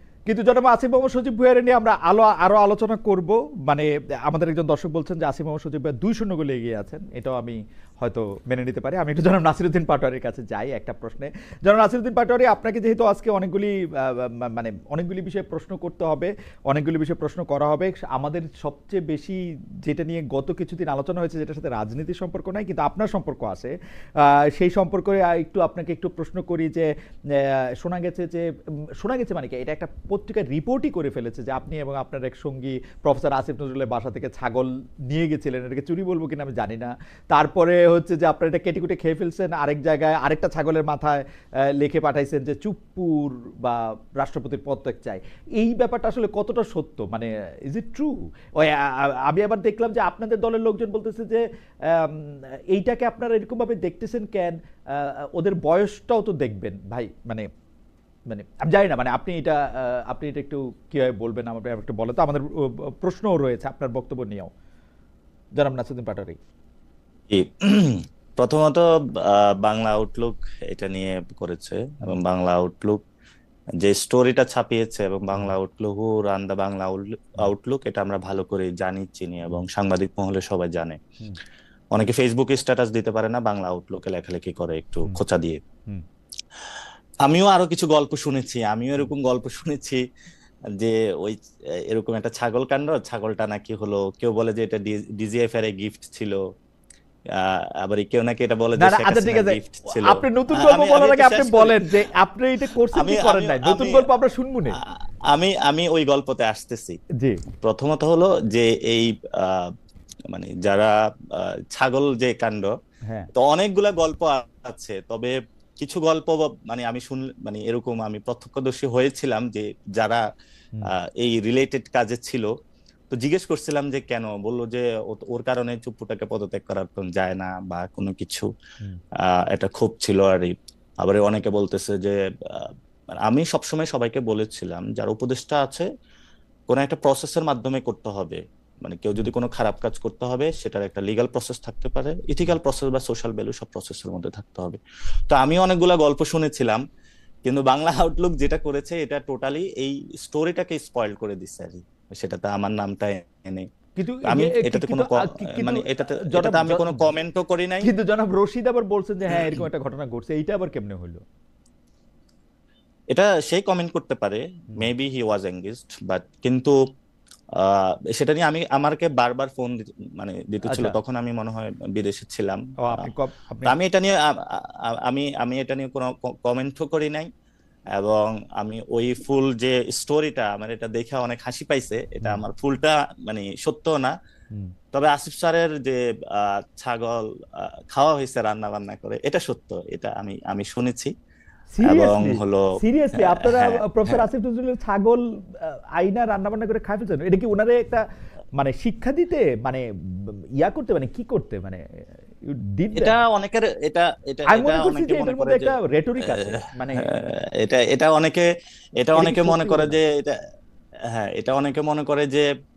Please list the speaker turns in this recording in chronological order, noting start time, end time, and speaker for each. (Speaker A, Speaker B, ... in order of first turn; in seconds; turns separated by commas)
Speaker A: 0.3-28.4, Speaker A: 29.0-41.2, Speaker A: 41.8-57.5, Speaker A: 58.3-64.5, Speaker A: 65.5-66.4, Speaker B: 67.3-73.0, Speaker B: 73.8-81.0, Speaker B: 81.9-85.6, Speaker B: 87.2-90.0, Speaker B: 90.8-96.4, Speaker B: 97.3-101.8, Speaker A: 98.8-104.8, Speaker B: 102.9-104.1, Speaker B: 104.8-107.0, Speaker B: 107.6-109.7, Speaker B: 110.3-112.7, Speaker B: 113.3-120.2, Speaker B: 120.9-122.5, Speaker B: 123.1-128.5, Speaker B: 129.2-135.9, Speaker B: 136.7-146.8, Speaker B: 147.4-153.7, Speaker A: 154.0-157.1, Speaker B: 154.2-157.9, Speaker A: 157.8-161.2, Speaker B: 159.3-159.6, Speaker B: 163.1-166.8, Speaker B: 167.6-173.1, Speaker A: 170.7-171.0, Speaker A: 172.8-173.8, Speaker B: 173.6-177.3, Speaker B: 177.9-184.1, Speaker B: 184.9-191.1, Speaker A: 191.7-198.0, Speaker B: 191.8-194.2, Speaker A: 198.6-201.8, Speaker A: 202.5-203.2, Speaker B: 202.9-205.8, Speaker A: 204.5-207.2, Speaker B: 206.3-208.4, Speaker B: 209.0-210.4, Speaker A: 209.1-210.0, Speaker B: 211.1-212.5